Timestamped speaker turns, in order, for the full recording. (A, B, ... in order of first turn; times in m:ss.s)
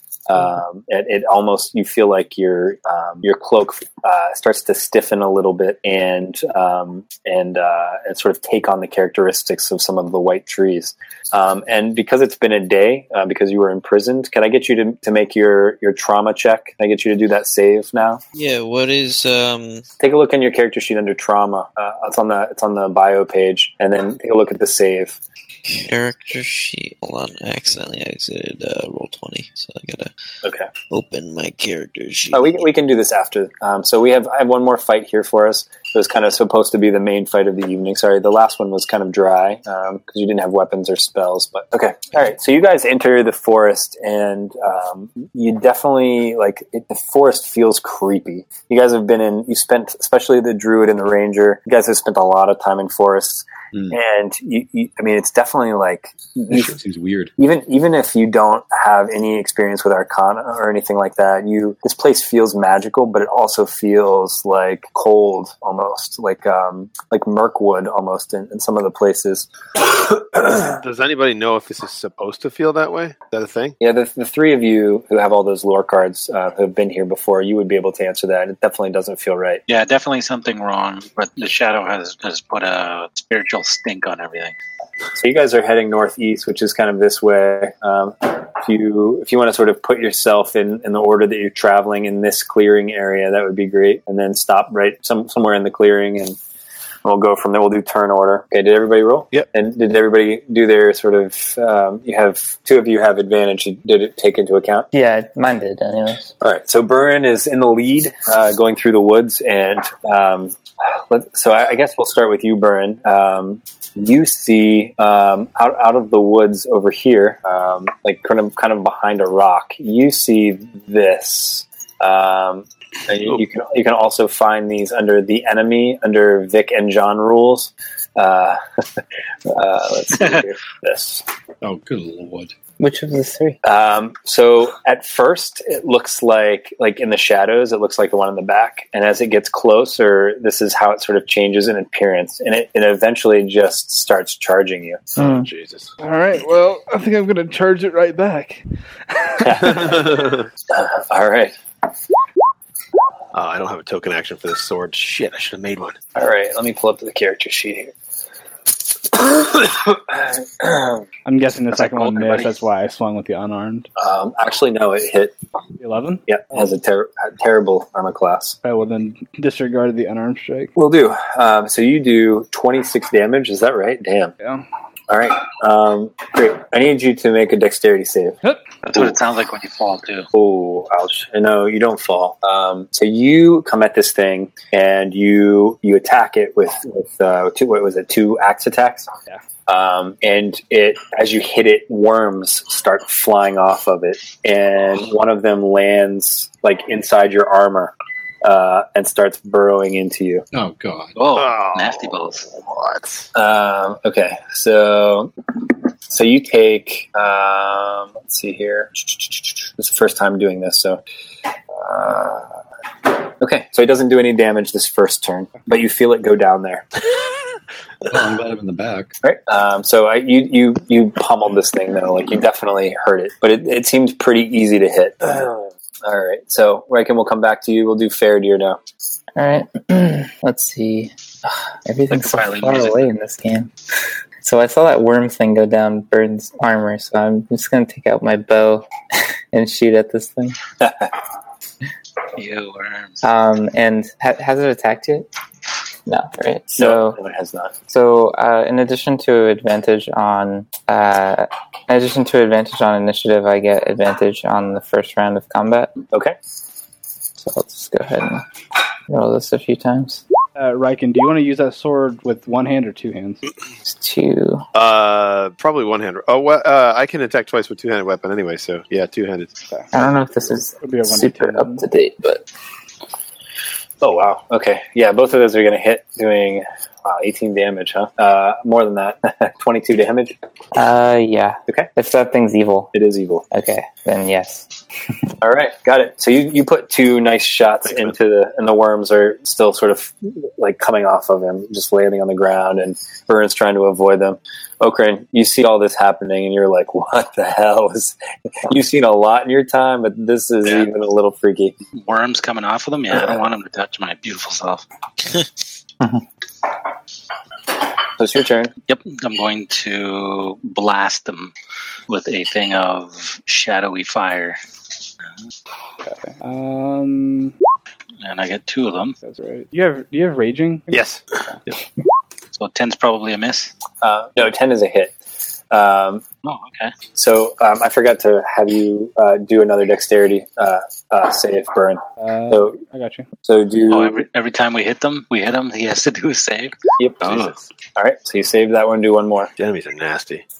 0:00.3-0:18.2 A
0:18.3-0:19.8 B
0:20.0-0:25.2 A
0:25.6-0:30.1 B
0:30.4-0:30.7 A
0:30.9-0:32.6 B
0:32.3-0:56.7 A
0:56.5-0:57.3 C
0:57.4-1:10.7 A
1:10.8-1:13.8 D
1:13.8-1:19.6 A
1:19.7-1:24.5 E
1:25.2-1:36.4 A
1:37.0-1:44.9 A
1:44.9-1:46.3 F
1:46.4-2:08.6 A
2:09.5-2:11.2 A
2:11.6-2:12.5 C
2:12.8-2:13.6 F
2:13.6-2:25.2 A
2:25.2-2:25.9 D
2:26.0-2:29.8 G
2:29.4-2:31.6 A
2:29.8-2:30.4 D
2:33.3-2:36.0 D
2:36.2-2:37.9 A
2:39.1-2:41.0 A
2:41.2-2:43.9 G
2:41.7-2:42.6 E
2:44.0-2:45.3 A
2:45.8-2:46.7 G
2:46.3-2:48.6 A
2:48.6-2:50.7 G
2:50.8-2:54.3 A
2:55.1-2:58.4 A
2:58.8-3:00.3 E
3:00.3-3:09.1 A
3:09.7-3:20.4 A
3:20.5-3:21.2 C
3:21.1-3:22.5 E
3:21.3-3:23.2 D
3:23.3-3:25.3 A
3:26.1-3:31.0 A
3:31.7-3:32.6 A
3:33.2-3:36.8 A
3:38.1-3:39.1 C
3:39.2-3:48.8 A
3:49.4-3:53.7 F
3:52.1-3:53.0 E
3:54.4-3:58.9 F
3:59.5-4:00.6 F
4:00.8-4:01.1 A
4:02.4-4:03.2 E
4:03.2-4:05.3 F
4:06.1-4:07.2 F
4:06.8-4:07.7 A
4:07.9-4:15.9 F
4:17.4-4:18.4 F
4:19.1-4:20.2 F
4:20.6-4:23.4 G
4:23.8-4:24.6 F
4:24.7-4:29.5 D
4:29.9-4:32.4 F
4:30.8-4:31.8 G
4:34.0-4:40.4 A
4:40.7-4:42.9 F
4:42.9-4:43.4 A
4:43.5-4:44.6 F
4:45.4-4:58.2 A
4:58.7-5:01.7 A
5:02.0-5:05.4 E
5:08.2-5:08.7 A
5:08.9-5:11.5 E
5:12.1-5:14.6 E
5:16.0-5:17.5 G
5:18.2-5:19.2 E
5:19.2-5:21.5 G
5:20.9-5:21.3 D
5:22.5-5:23.7 E
5:24.0-5:25.1 A
5:25.7-5:26.2 A
5:26.4-5:26.9 E
5:27.1-5:32.8 A
5:32.2-5:33.3 G
5:33.4-5:34.2 A
5:33.9-5:36.7 E
5:37.0-5:39.5 A
5:37.2-5:37.6 D
5:39.6-5:40.4 D